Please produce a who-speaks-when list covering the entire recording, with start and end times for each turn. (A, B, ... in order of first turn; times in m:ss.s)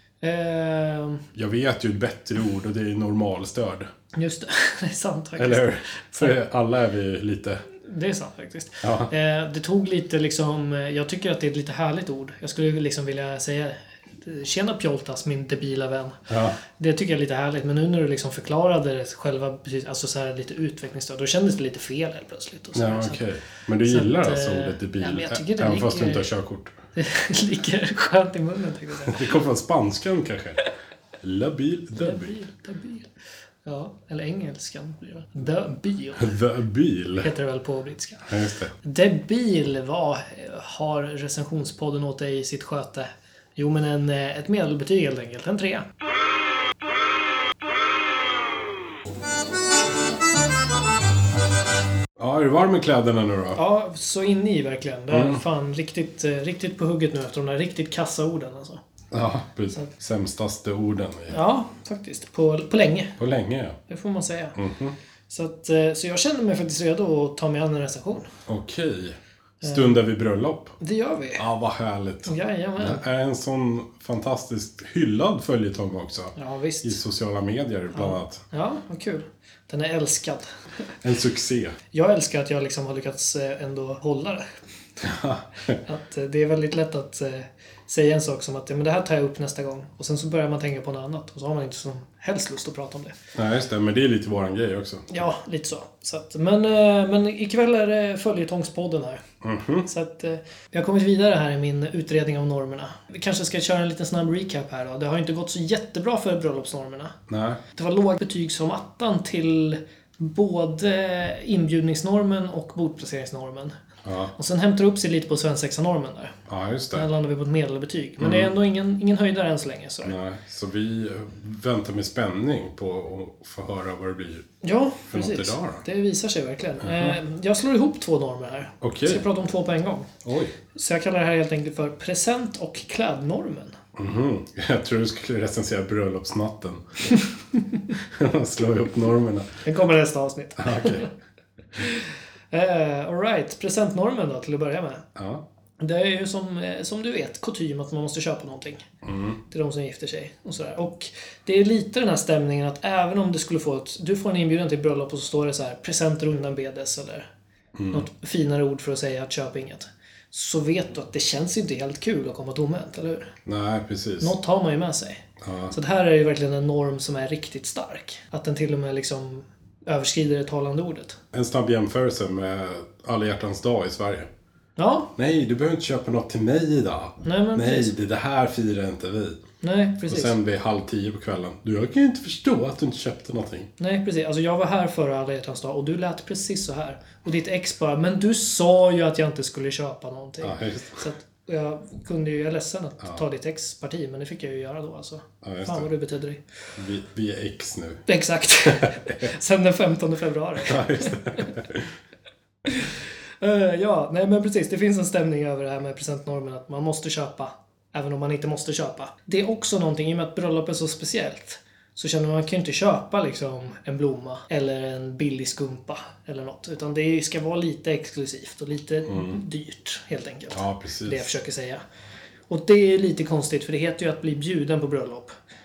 0:00.2-0:01.2 A
0:01.3-0:03.9 B
0:04.1-0:06.3 A
0:05.4-0:07.7 B
0:07.7-0:23.2 A
0:08.8-0:09.1 B
0:16.3-0:16.6 B
0:22.7-0:26.8 B
0:23.8-0:26.3 A
0:27.0-0:29.4 A
0:29.0-0:30.7 B
0:31.2-0:32.4 B
0:32.0-0:33.1 A
0:33.6-0:36.4 A
0:36.2-0:37.3 B
0:37.2-0:38.3 A
0:38.2-0:38.7 B
0:38.8-0:45.9 A
0:52.2-0:53.6 B
0:53.6-0:58.8 A
0:55.1-0:55.4 B
0:59.1-1:01.4 B
1:01.3-1:03.2 A
1:03.2-1:03.8 B
1:03.9-1:04.6 A
1:04.5-1:04.9 B
1:05.3-1:08.3 A
1:08.5-1:10.8 B
1:09.6-1:10.0 A
1:10.8-1:11.4 A
1:11.4-1:18.4 B
1:12.2-1:13.0 A
1:16.4-1:17.0 A
1:17.9-1:20.5 A
1:21.0-1:21.8 B
1:21.9-1:24.4 A
1:25.0-1:25.8 B
1:25.8-1:33.2 A
1:33.3-1:35.2 B
1:35.1-1:39.2 A
1:39.4-1:39.9 B
1:39.9-1:47.2 A
1:47.3-1:47.6 B
1:47.7-1:53.7 A
1:54.0-1:54.3 B
1:54.3-1:56.4 A
1:56.5-1:57.1 B
1:56.9-2:00.2 A
1:58.2-1:58.5 B
2:00.0-2:04.5 B
2:04.6-2:10.1 A
2:05.1-2:05.8 B
2:06.8-2:07.2 B
2:08.8-2:09.2 B
2:10.2-2:10.5 B
2:10.7-2:13.8 A
2:14.0-2:17.2 B
2:18.0-2:19.6 B
2:19.6-2:21.1 A
2:20.6-2:21.1 B
2:21.8-2:25.0 A
2:25.2-2:25.4 B
2:25.8-2:28.9 A
2:29.0-2:29.4 B
2:29.5-2:37.3 A
2:37.8-2:38.1 B
2:37.9-2:43.3 A
2:43.4-2:44.4 B
2:44.2-2:51.2 A
2:45.4-2:45.7 B
2:51.3-2:54.3 B
2:54.8-2:55.1 A
2:55.2-2:59.4 B
2:57.2-2:57.9 A
2:59.6-3:00.3 A
3:00.0-3:03.7 B
3:03.8-3:16.4 A
3:10.4-3:11.1 B
3:15.4-3:15.9 B
3:16.8-3:18.0 B
3:18.1-3:21.5 A
3:18.8-3:19.1 B
3:20.6-3:21.9 B
3:22.6-3:41.8 A
3:39.1-3:39.4 B
3:40.5-3:41.3 B
3:42.5-3:45.3 A